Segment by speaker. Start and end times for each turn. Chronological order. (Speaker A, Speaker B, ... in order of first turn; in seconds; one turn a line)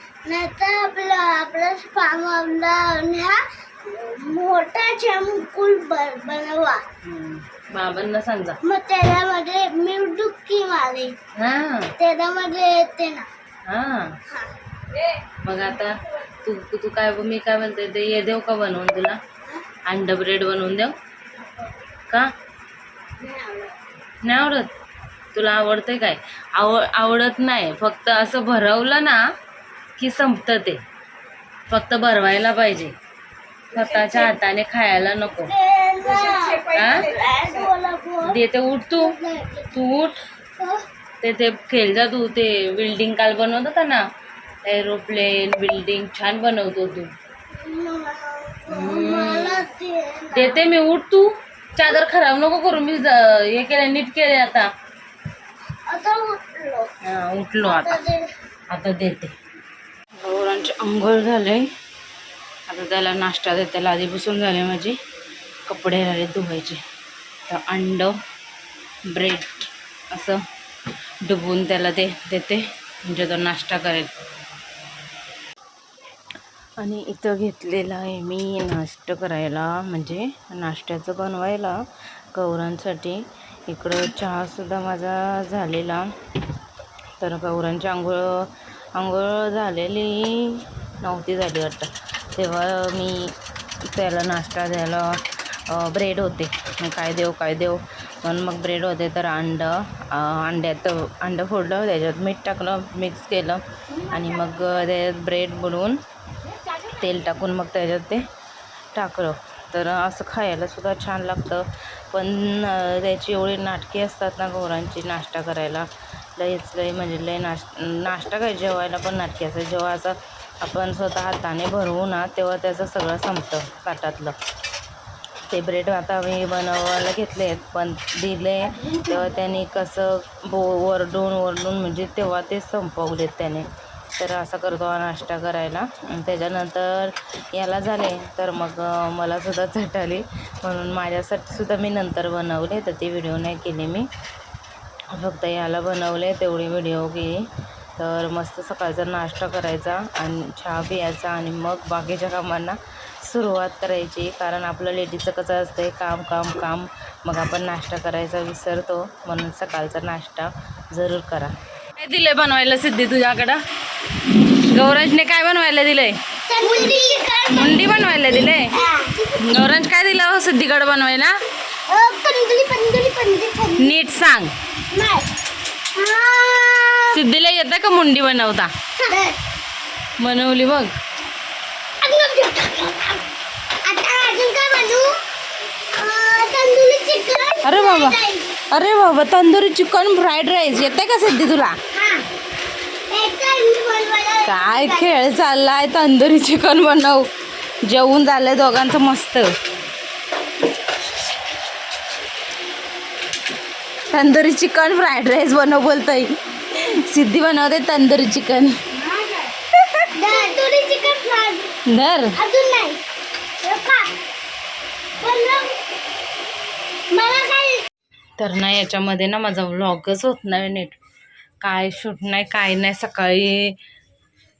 Speaker A: 0.2-6.8
Speaker B: 7.0-8.6
Speaker A: 8.6-11.2
Speaker B: 11.4-11.9
Speaker A: 12.0-13.3
Speaker B: 13.7-14.2
Speaker B: 15.4-19.2
Speaker B: 19.9-20.9
Speaker A: 23.2-23.7
Speaker B: 24.2-24.7
Speaker B: 25.3-29.2
Speaker B: 30.0-30.8
Speaker B: 31.7-33.0
Speaker B: 33.7-35.5
Speaker A: 33.9-34.3
Speaker A: 35.5-38.4
Speaker B: 36.7-37.1
Speaker B: 38.2-39.2
Speaker A: 39.0-39.8
Speaker B: 39.7-40.2
Speaker A: 40.6-40.9
Speaker B: 41.2-44.1
Speaker B: 44.6-47.1
Speaker A: 47.5-50.7
Speaker B: 48.7-49.6
Speaker B: 50.3-54.7
Speaker A: 55.9-56.9
Speaker B: 57.0-58.0
Speaker A: 57.6-58.3
Speaker B: 58.7-59.3
Speaker B: 60.2-61.7
Speaker B: 62.7-65.0
Speaker B: 65.7-66.8
Speaker B: 67.5-68.2
Speaker B: 69.1-70.4
Speaker B: 71.2-74.1
Speaker B: 76.8-81.8
Speaker B: 82.3-86.1
Speaker B: 87.2-106.0
Speaker B: 106.7-108.3
Speaker B: 108.9-124.4
Speaker B: 125.5-144.1
Speaker B: 145.1-163.6
Speaker B: 164.3-166.2
Speaker A: 166.5-169.5
Speaker B: 167.5-168.7
Speaker B: 169.4-171.4
Speaker A: 171.9-173.9
Speaker B: 173.8-174.5
Speaker A: 174.9-175.3
Speaker A: 175.9-177.2
Speaker B: 177.1-178.7
Speaker A: 179.0-179.4
Speaker B: 180.2-180.9
Speaker A: 182.0-183.2
Speaker A: 183.8-185.1
Speaker A: 185.9-188.5
Speaker B: 187.6-191.8
Speaker A: 191.9-192.2
Speaker A: 193.1-195.1
Speaker B: 194.4-197.3
Speaker B: 197.8-199.5
Speaker B: 204.1-209.0
Speaker B: 209.8-210.1
Speaker A: 210.1-211.7
Speaker B: 211.9-212.4
Speaker A: 212.3-213.0
Speaker A: 213.6-214.1
Speaker A: 215.2-215.8
Speaker A: 217.1-217.9
Speaker B: 218.4-221.0
Speaker B: 221.6-223.8